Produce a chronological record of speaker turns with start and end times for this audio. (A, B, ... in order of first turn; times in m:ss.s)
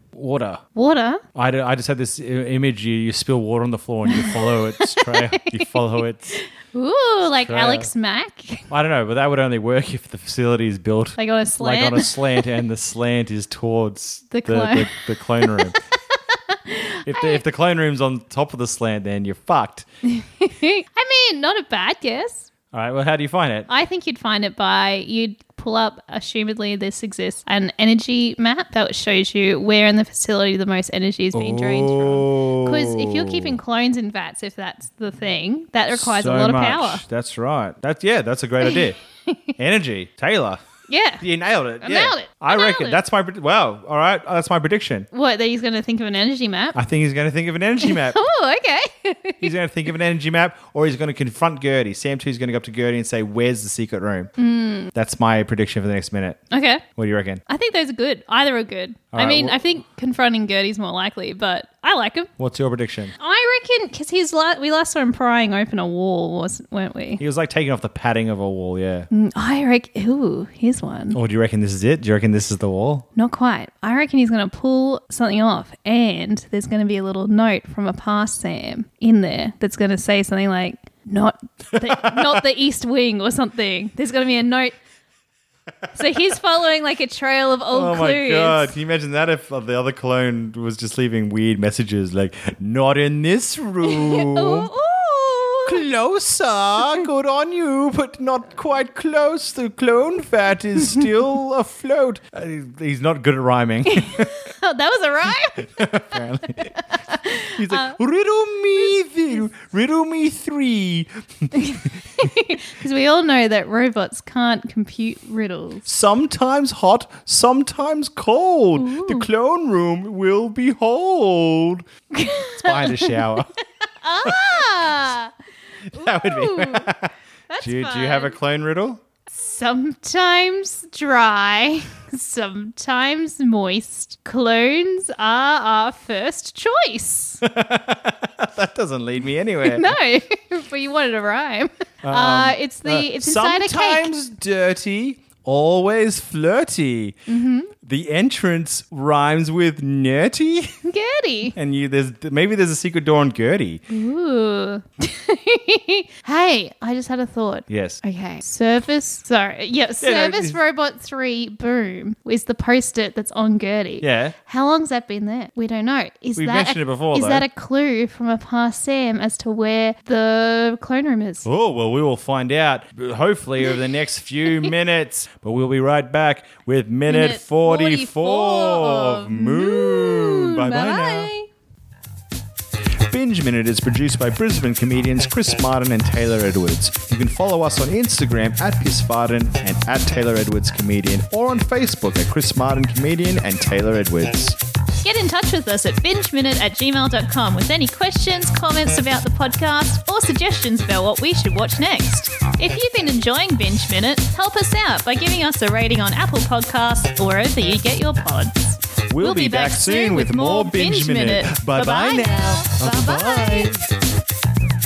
0:00.1-0:00.6 A
0:00.7-0:01.2 B
0:01.3-0:06.4 A
0:04.0-0:05.8 B
0:06.6-0:08.7 B
0:07.2-0:07.9 A
0:08.7-0:15.8 A
0:11.2-0:12.4 B
0:14.3-0:17.4 B
0:17.1-0:19.8 A
0:20.0-0:22.5 B
0:22.7-0:23.7 A
0:23.7-0:37.0 B
0:31.3-0:33.6 A
0:35.9-0:39.0 A
0:38.6-0:39.4 B
0:39.6-0:40.6 A
0:40.9-0:41.2 B
0:41.2-0:45.1 A
0:41.8-0:43.0 B
0:45.1-0:46.8 B
0:46.7-0:48.2 A
0:47.8-0:49.5 B
0:49.4-0:54.3 A
0:54.4-0:54.9 B
0:54.9-0:56.4 A
0:56.5-0:56.8 B
0:57.0-0:57.4 A
0:57.5-1:02.3 B
0:59.1-0:59.6 A
1:02.4-1:03.1 A
1:03.2-1:07.2 B
1:07.2-1:09.1 A
1:09.1-1:11.2 B
1:11.1-1:13.0 A
1:13.2-1:24.8 B
1:21.8-1:22.4 A
1:25.9-1:28.7 B
1:27.7-1:34.7 A
1:33.8-1:35.8 B
1:35.6-1:44.3 A
1:43.8-1:48.0 B
1:45.6-1:46.7 A
1:47.5-1:52.2 A
1:51.5-1:55.8 B
1:55.8-2:01.8 A
1:58.8-1:59.3 B
2:02.1-2:03.4 B
2:02.6-2:03.5 A
2:04.0-2:05.3 B
2:04.2-2:05.0 A
2:05.9-2:06.9 B
2:05.9-2:07.1 A
2:07.5-2:08.4 B
2:07.6-2:09.0 A
2:09.3-2:17.4 B
2:17.4-2:19.9 A
2:19.6-2:24.1 B
2:22.0-2:27.2 A
2:27.3-2:27.7 B
2:27.8-2:30.7 A
2:30.8-2:31.5 B
2:31.5-2:33.8 A
2:33.9-2:51.5 B
2:37.7-2:38.0 A
2:40.0-2:40.6 A
2:44.0-2:44.4 A
2:46.4-2:47.4 A
2:51.4-3:01.3 A
2:57.1-3:01.5 B
3:03.1-3:14.6 A
3:15.0-3:33.8 B
3:29.1-3:33.8 A